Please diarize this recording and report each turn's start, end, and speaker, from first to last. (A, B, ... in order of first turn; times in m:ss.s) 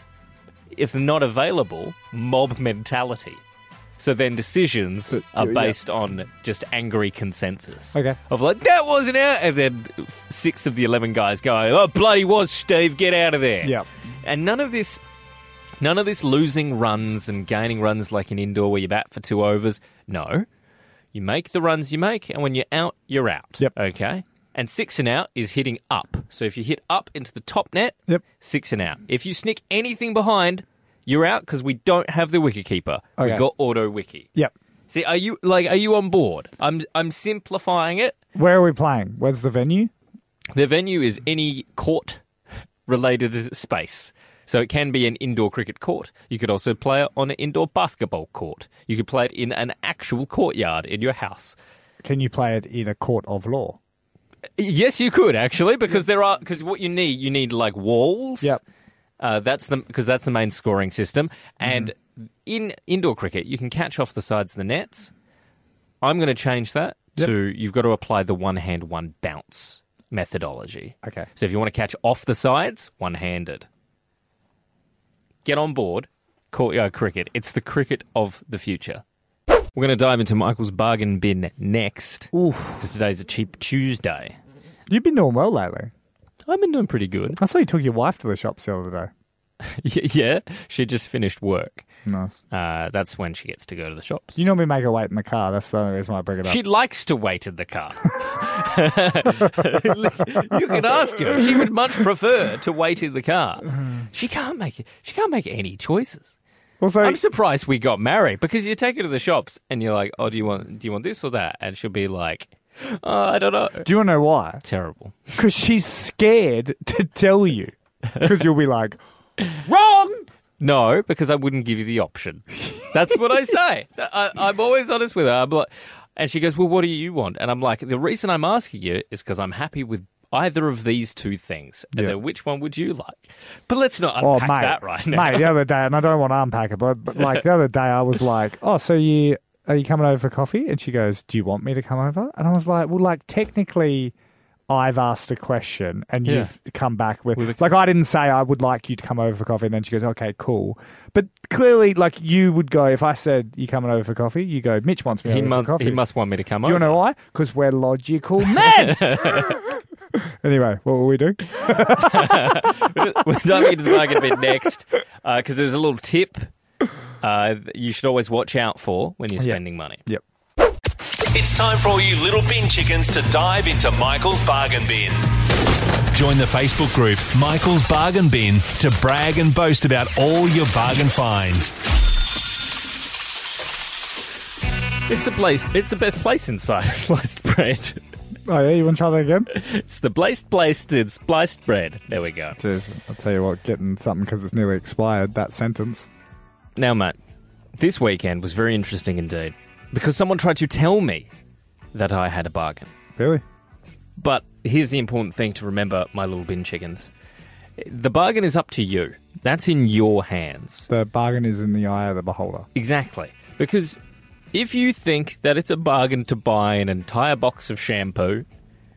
0:00.7-0:03.4 A
0:04.0-0:15.0 A
0:05.1-0:05.8 B
0:13.6-0:13.9 B
0:15.8-0:20.5 A
0:21.1-0:34.3 A
0:33.2-0:33.4 B
0:34.9-0:38.2 A
0:38.4-0:39.9 B
0:40.5-0:42.2 A
0:42.9-0:51.6 A
0:52.0-0:53.8 B
0:54.6-0:58.6 A
0:59.2-1:05.1 A
1:01.6-1:01.9 B
1:06.0-1:13.7 A
1:11.0-1:11.3 B
1:15.4-1:19.0 A
1:19.8-1:24.4 A
1:22.3-1:22.9 B
1:24.9-1:25.9 B
1:26.5-1:27.4 A
1:27.4-1:29.1 B
1:29.7-1:31.9 A
1:32.0-1:32.4 B
1:32.5-1:34.4 A
1:34.4-1:36.6 B
1:36.4-1:46.3 A
1:46.8-1:47.2 B
1:47.0-1:53.9 A
1:53.8-1:54.6 B
1:54.6-1:55.2 A
1:55.4-1:59.0 B
1:59.5-2:00.3 B
2:00.6-2:15.6 A
2:14.2-2:24.1 B
2:24.7-2:36.0 B
2:26.2-2:26.5 A
2:35.2-2:37.0 A
2:36.6-2:39.6 B
2:38.5-2:39.6 A
2:40.2-2:42.7 B
2:41.6-2:46.5 A
2:47.2-2:50.0 A
2:49.4-2:50.2 B
2:51.3-2:55.3 C
2:56.1-3:01.8 C
3:05.1-3:08.0 A
3:08.5-3:09.5 B
3:09.5-3:12.6 A
3:12.6-3:16.1 B
3:16.8-3:17.2 A
3:17.8-3:21.3 A
3:21.9-3:22.9 A
3:23.2-3:23.4 B
3:24.2-3:27.1 A
3:27.8-3:30.9 A
3:30.9-3:32.7 B
3:32.8-3:34.0 A
3:34.5-3:38.4 A